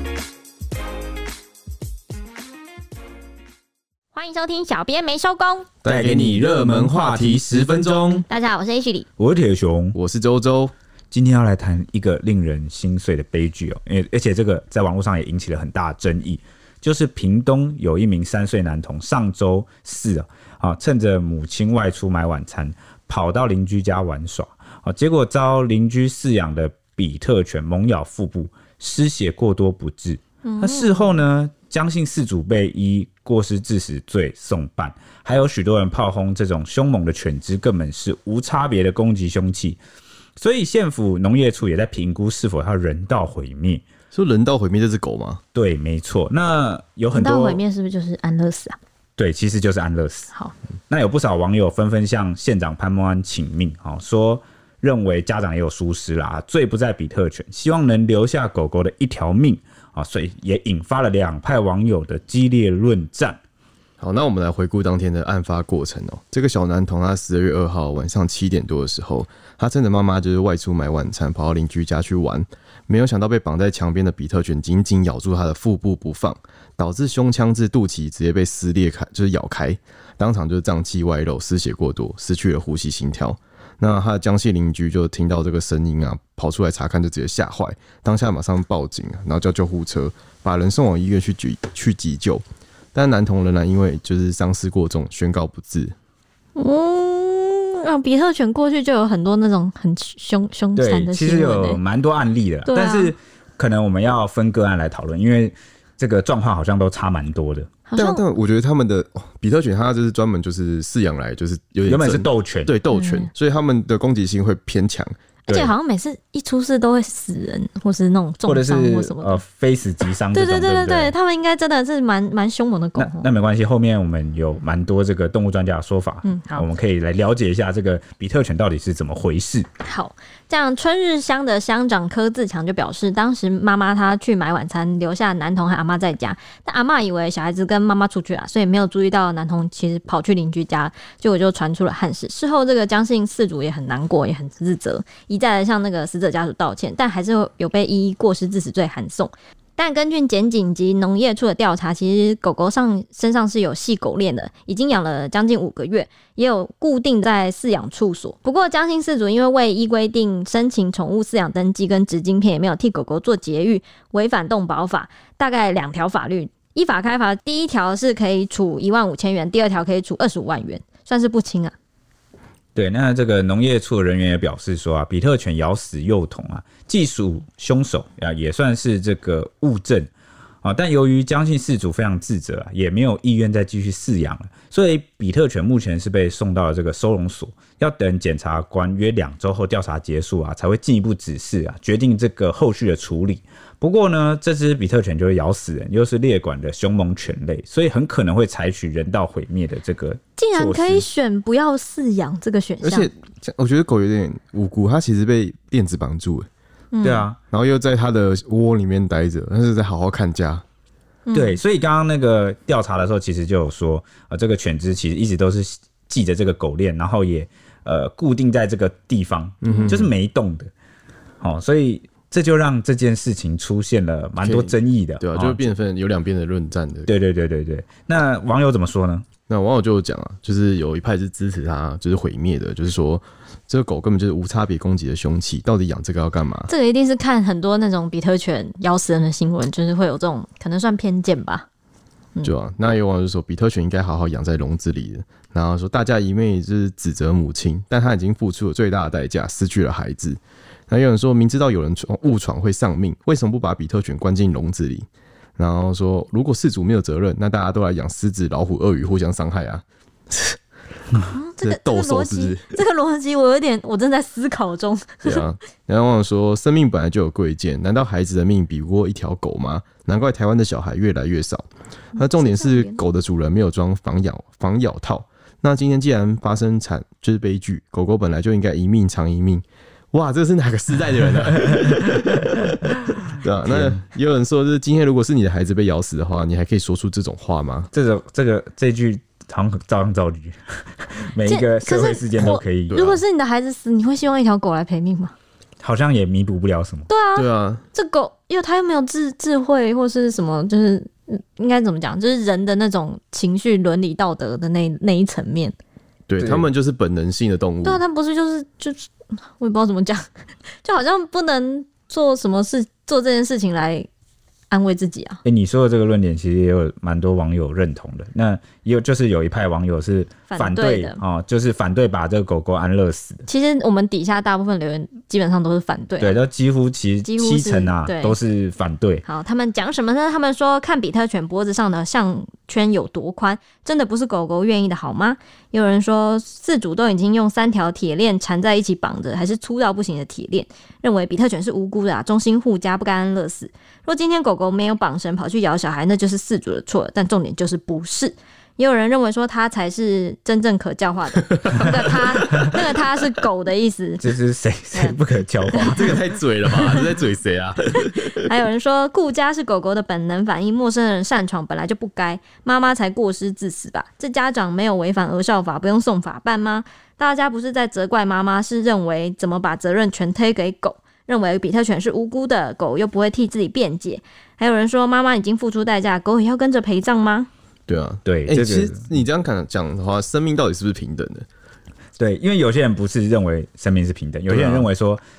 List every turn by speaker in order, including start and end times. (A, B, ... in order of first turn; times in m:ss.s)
0:04.1-0:05.7 A
0:05.8-0:08.2 B
0:05.9-0:08.2 C
0:08.3-0:09.1 A
0:09.2-0:10.0 C
0:10.0-0:10.7 B
0:11.1-0:39.8 C
0:30.4-0:31.2 A
0:40.4-0:43.8 C
0:44.1-0:45.4 B
0:45.6-0:47.6 C
0:47.1-0:48.8 A
0:49.2-0:50.3 C
0:50.9-1:03.4 C
1:04.0-1:32.4 B
1:33.0-1:36.0 B
1:36.6-1:41.8 A
1:40.8-1:47.7 C
1:42.7-1:43.1 A
1:47.9-1:48.2 A
1:48.0-1:55.2 B
1:51.9-1:52.7 C
1:52.9-1:53.3 A
1:55.5-1:59.4 A
1:58.5-2:01.1 C
2:00.3-2:03.3 A
2:03.0-2:09.7 C
2:06.2-2:06.7 A
2:09.8-2:51.8 A
2:52.8-3:00.1 C
3:00.6-3:21.0 C
3:20.4-3:23.1 A
3:22.8-3:26.5 B
3:26.9-3:27.3 A
3:27.0-3:27.4 C
3:27.5-3:30.6 B
3:31.3-3:31.6 A
3:31.3-3:40.7 C
3:39.6-3:40.1 B
3:39.7-3:39.9 A
3:41.4-3:45.6 C
3:44.4-3:47.1 B
3:47.1-3:49.3 C
3:49.5-3:56.7 B
3:56.7-4:01.7 A
4:02.4-4:20.6 B
4:21.3-4:25.4 A
4:21.6-4:22.8 B
4:25.2-4:31.6 B
4:32.2-4:33.0 A
4:32.2-4:42.8 B
4:43.3-4:47.9 B
4:43.7-4:44.0 C
4:47.9-4:53.0 C
4:51.5-4:55.3 A
4:52.9-4:53.2 B
4:55.8-4:57.1 C
4:57.1-5:05.8 A
4:57.4-4:57.8 B
5:06.3-5:08.0 B
5:06.4-5:06.6 C
5:07.8-5:10.3 A
5:10.8-5:14.1 A
5:14.7-5:15.4 A
5:15.4-5:23.5 C
5:20.5-5:21.2 A
5:23.5-5:26.4 A
5:26.2-5:29.2 C
5:27.2-5:28.4 A
5:29.3-5:54.2 A
5:51.5-5:52.8 B
5:54.2-5:56.2 C
5:55.7-5:56.0 A
5:55.8-5:58.5 B
5:58.2-6:17.5 A
6:17.9-6:21.5 B
6:18.2-6:19.1 C
6:22.2-6:25.2 C
6:24.5-6:24.9 B